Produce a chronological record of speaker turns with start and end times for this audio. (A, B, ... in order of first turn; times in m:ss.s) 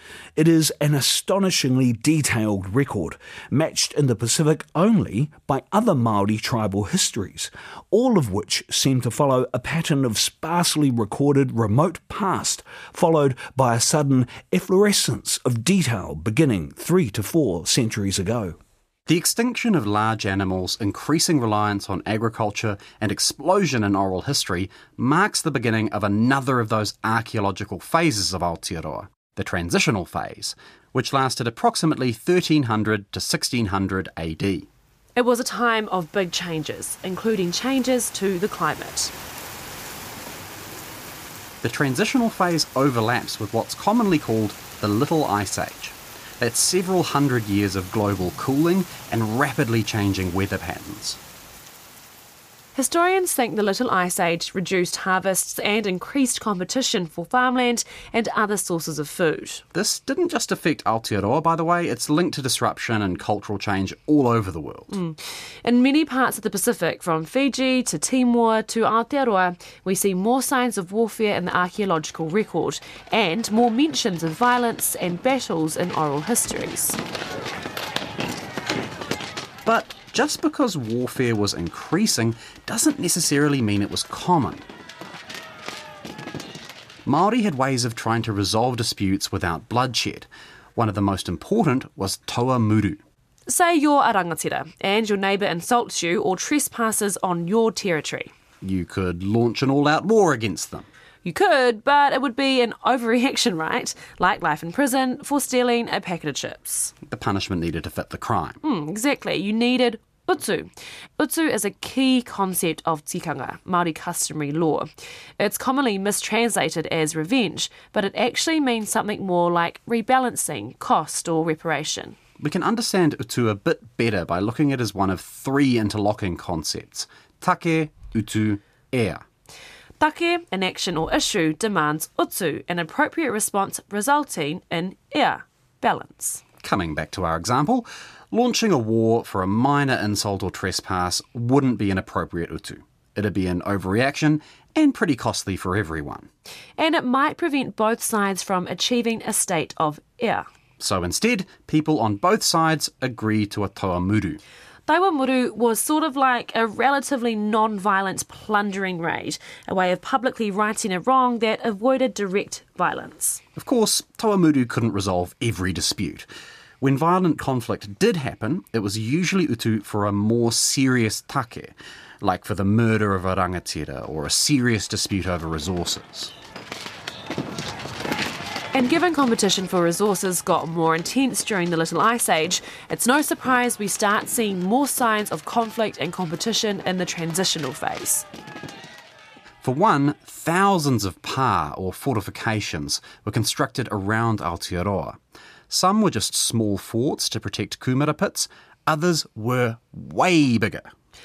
0:00.4-0:18.6 A
0:19.1-0:34.7 B
0:35.2-0:39.1 C
0:41.6-0:51.2 B
0:52.7-0:59.6 C
0:59.7-1:04.9 B
1:04.9-1:17.0 C
1:19.6-1:24.6 B
1:27.0-1:33.0 B
1:33.5-1:38.3 C
1:38.6-1:40.9 B
1:41.2-1:46.9 C
1:47.1-1:48.6 B
1:48.6-2:02.2 C
2:02.4-2:09.2 B
2:10.0-2:16.4 C
2:16.6-2:26.3 B
2:26.8-2:30.4 C
2:30.8-2:34.4 B
2:34.9-2:43.4 C
2:43.6-2:46.3 B
2:46.8-2:56.3 B
2:58.7-3:08.2 C
3:09.6-3:15.2 B
3:15.7-3:20.9 B